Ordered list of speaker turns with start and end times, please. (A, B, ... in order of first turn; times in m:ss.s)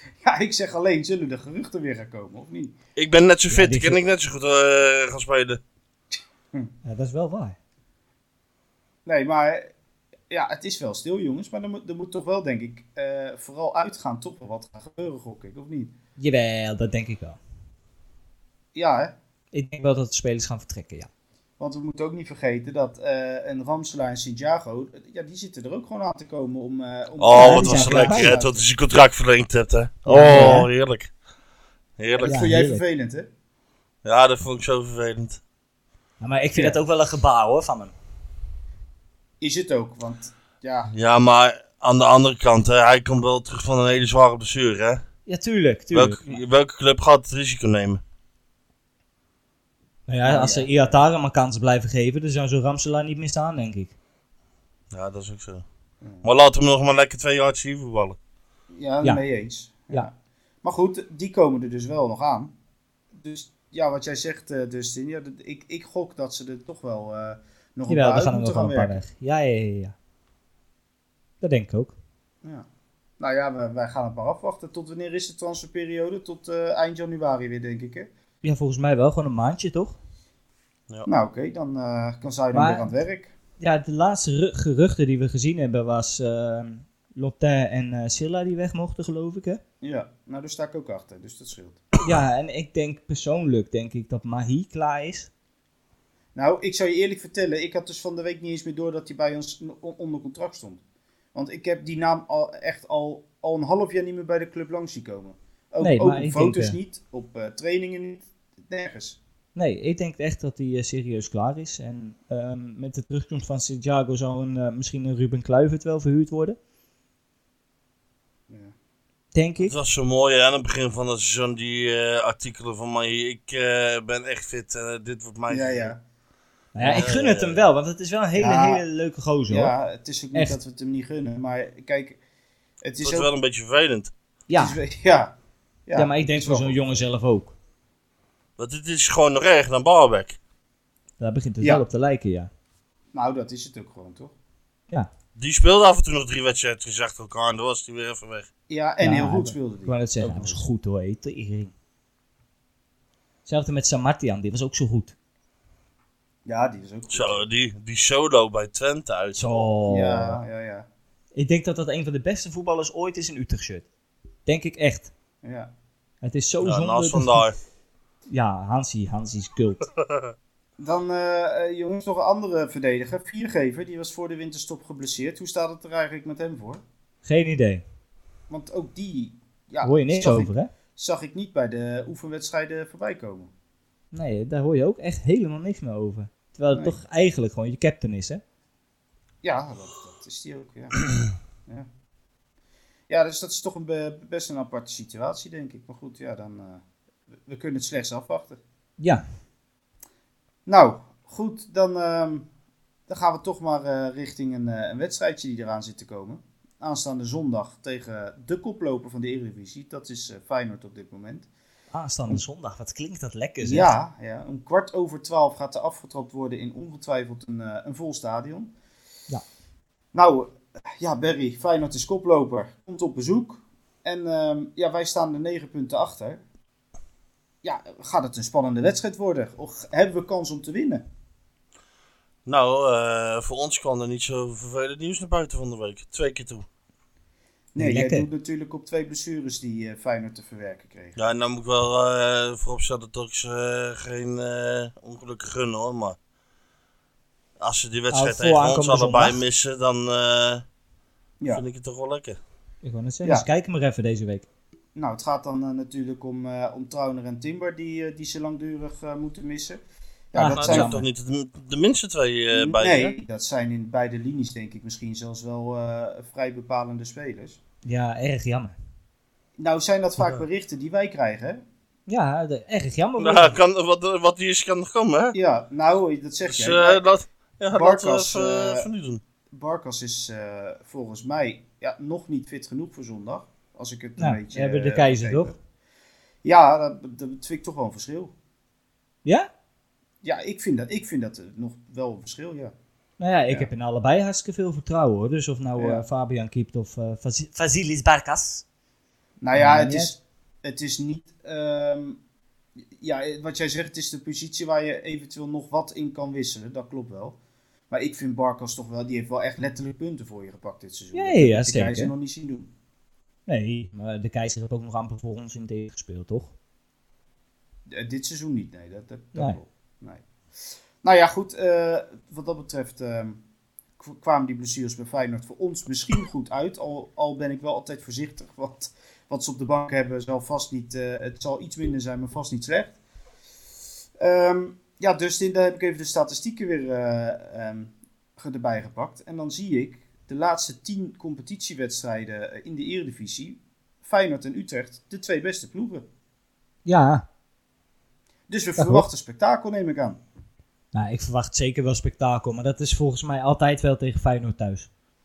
0:00.2-0:02.8 A
0:03.0-0:05.6 B
0:03.5-0:04.0 C
0:06.8-0:07.6 C
0:09.0-0:09.7 A
0:10.3-0:15.9 A
0:16.2-0:17.4 C
0:18.7-0:19.1 A
0:19.5-0:21.1 C
0:21.6-0:28.6 A
0:27.2-0:31.1 B
0:27.3-0:28.4 C
0:30.1-0:30.7 C
0:30.1-0:30.7 A
0:32.0-0:32.4 B
0:32.2-0:33.3 A
0:32.2-0:32.8 C
0:34.0-0:35.4 B
0:36.2-0:37.9 C
0:39.4-0:40.9 A
0:40.9-0:45.0 B
0:45.3-0:46.3 C
0:45.9-0:48.0 B
0:50.1-0:54.0 C
0:50.2-0:51.0 A
0:54.9-0:55.6 B
0:56.2-0:58.2 B
0:58.7-1:00.1 A
1:00.6-1:02.5 A
1:03.1-1:09.0 A
1:07.9-1:09.9 C
1:11.4-1:12.0 C
1:13.2-1:18.1 A
1:18.4-1:20.0 C
1:21.0-1:23.3 A
1:22.5-1:22.9 C
1:23.6-1:29.6 C
1:29.8-1:31.8 A
1:32.0-1:35.3 C
1:36.3-1:40.8 A
1:41.3-1:49.2 A
1:45.8-1:46.8 C
1:49.5-1:56.6 C
1:58.5-1:58.7 A
1:59.3-1:59.7 C
1:59.6-2:05.9 B
2:05.5-2:06.0 A
2:06.7-2:09.7 C
2:06.8-2:07.6 B
2:08.4-2:08.8 A
2:09.5-2:12.2 A
2:12.8-2:13.3 A
2:13.0-2:14.1 B
2:14.5-2:14.8 C
2:14.5-2:15.3 A
2:15.8-2:17.0 A
2:15.9-2:17.5 C
2:18.6-2:20.4 B
2:21.2-2:22.5 C
2:23.1-2:24.3 A
2:25.4-2:28.5 B
2:28.7-2:30.6 A
2:29.0-2:31.7 C
2:33.4-2:35.1 C
2:36.4-2:37.4 A
2:37.1-2:39.7 B
2:39.4-2:40.4 C
2:39.9-2:40.9 A
2:41.3-2:43.9 C
2:44.4-2:45.1 C
2:45.4-2:45.7 A
2:46.2-2:47.4 C
2:46.6-2:47.6 B
2:48.3-2:49.9 C
2:50.8-2:56.8 A
2:57.2-2:57.8 C
2:58.5-3:03.5 A
2:59.8-3:00.7 C
3:04.1-3:08.4 C
3:06.7-3:07.0 A
3:09.4-3:11.1 A
3:13.1-3:16.8 A
3:17.4-3:18.6 A
3:20.6-3:22.5 A
3:23.1-3:31.5 A
3:31.9-3:33.9 C
3:33.6-3:38.7 A
3:40.1-3:46.4 A
3:47.6-3:51.0 A
3:52.4-3:56.6 B
3:57.7-4:01.2 A
3:57.8-3:58.3 C
4:01.2-4:06.2 B
4:07.6-4:10.6 B
4:08.1-4:09.4 C
4:11.5-4:12.4 B
4:12.8-4:14.5 C
4:14.9-4:19.8 A
4:20.3-4:21.0 A
4:20.3-4:21.0 C
4:20.5-4:23.1 B
4:22.5-4:27.6 A
4:27.8-4:28.7 C
4:29.6-4:31.6 A
4:32.1-4:33.5 C
4:33.2-4:35.4 B
4:35.3-4:37.0 A
4:36.5-4:39.2 B
4:37.7-4:38.9 A
4:39.5-4:45.6 A
4:44.2-4:45.5 C
4:46.4-4:48.3 A
4:50.2-4:52.7 A
4:53.2-4:58.6 C
4:55.8-4:56.0 A
4:59.4-5:02.2 A
4:59.5-5:00.1 C
5:02.9-5:07.4 A
5:07.9-5:12.7 A
5:11.1-5:12.1 C
5:13.5-5:16.5 C
5:17.9-5:23.4 A
5:24.0-5:33.0 A
5:34.2-5:46.0 A
5:46.8-5:47.2 C
5:48.5-5:50.2 A
5:48.8-5:49.1 C
5:50.9-5:54.9 C